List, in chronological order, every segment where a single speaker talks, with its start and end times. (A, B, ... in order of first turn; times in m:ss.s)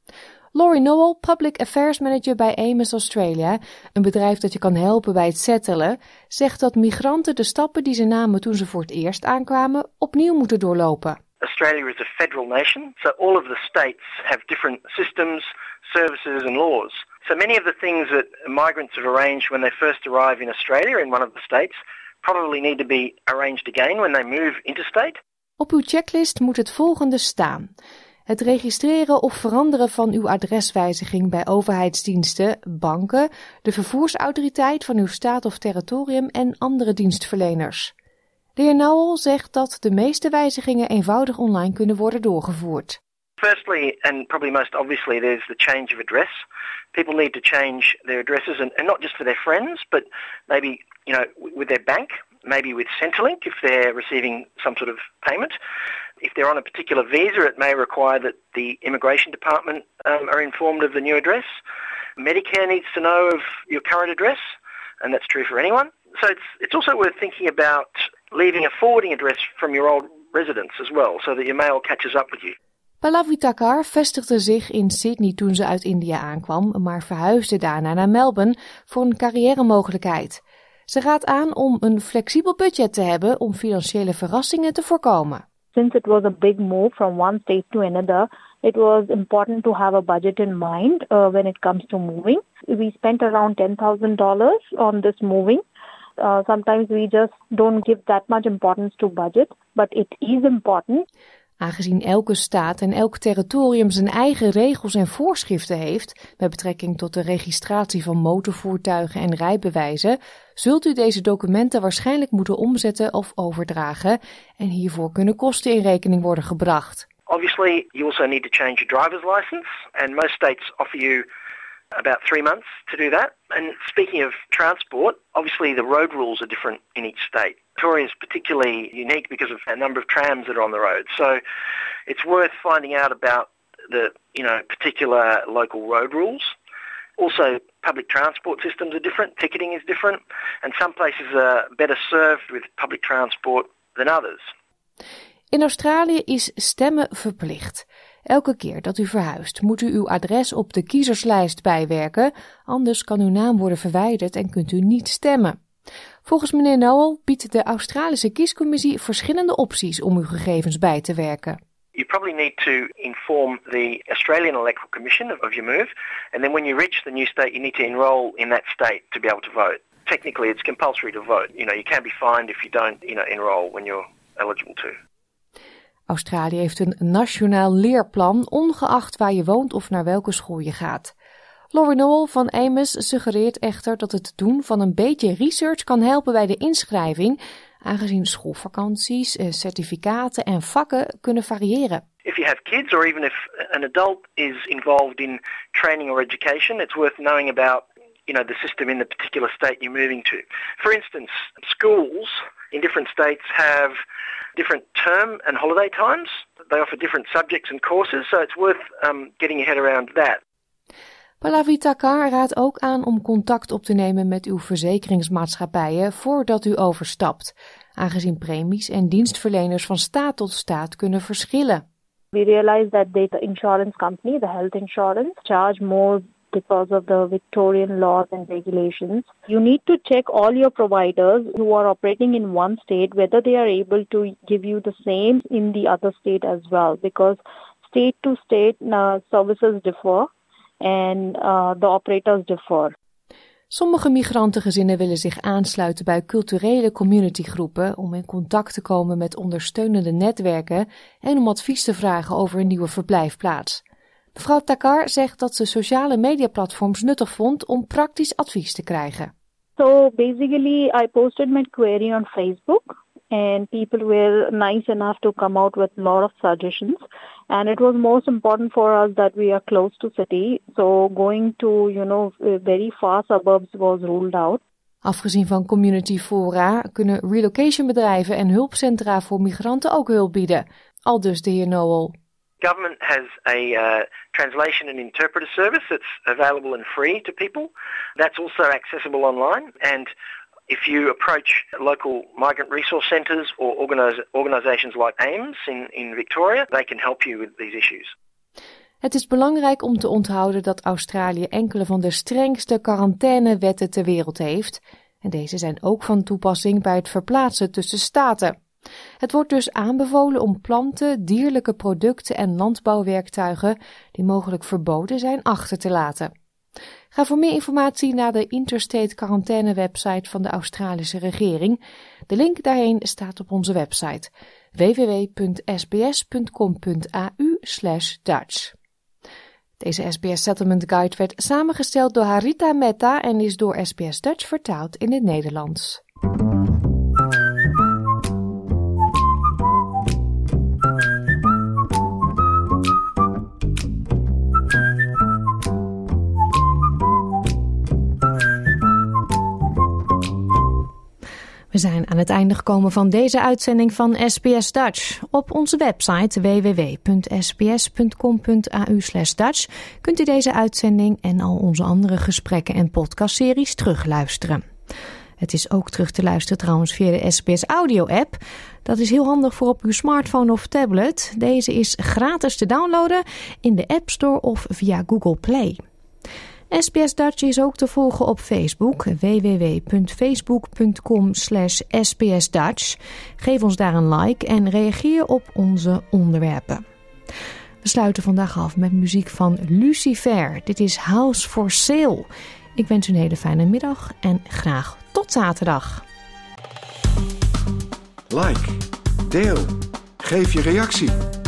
0:00.5-0:11.2 A
0:11.4-0:25.2 B
0:25.6-0:27.7 A
0:28.3-0:37.9 A
0:38.6-0:43.0 A
0:43.4-0:46.4 B
0:46.9-0:55.6 B
0:56.2-1:01.5 B
1:02.2-1:04.4 B
1:05.0-1:12.5 B
1:13.0-1:25.4 A
1:25.7-1:35.6 C
1:36.2-1:41.0 C
1:41.6-1:57.1 A
1:57.3-2:01.2 B
2:01.9-2:11.4 B
2:12.1-2:16.5 B
2:17.2-2:24.5 B
2:25.5-2:35.6 A
2:36.2-2:41.6 A
2:41.9-2:55.0 B
2:56.1-3:01.1 A
3:01.7-3:12.0 A
3:12.2-3:24.0 B
3:24.6-3:30.4 B
3:31.4-3:41.8 A
3:42.3-4:00.3 C
4:00.8-4:02.9 C
4:03.7-4:13.8 A
4:14.4-4:19.3 A
4:19.8-4:34.6 C
4:35.0-4:42.1 A
4:42.6-4:50.1 B
4:50.7-4:58.1 B
4:59.0-5:08.6 A
5:09.2-5:16.3 A
5:17.1-5:28.7 A
5:29.8-5:36.0 A
5:51.7-6:04.6 A
6:05.4-6:15.8 A
6:16.7-6:26.8 A
6:27.8-6:36.0 A
6:38.3-6:41.2 D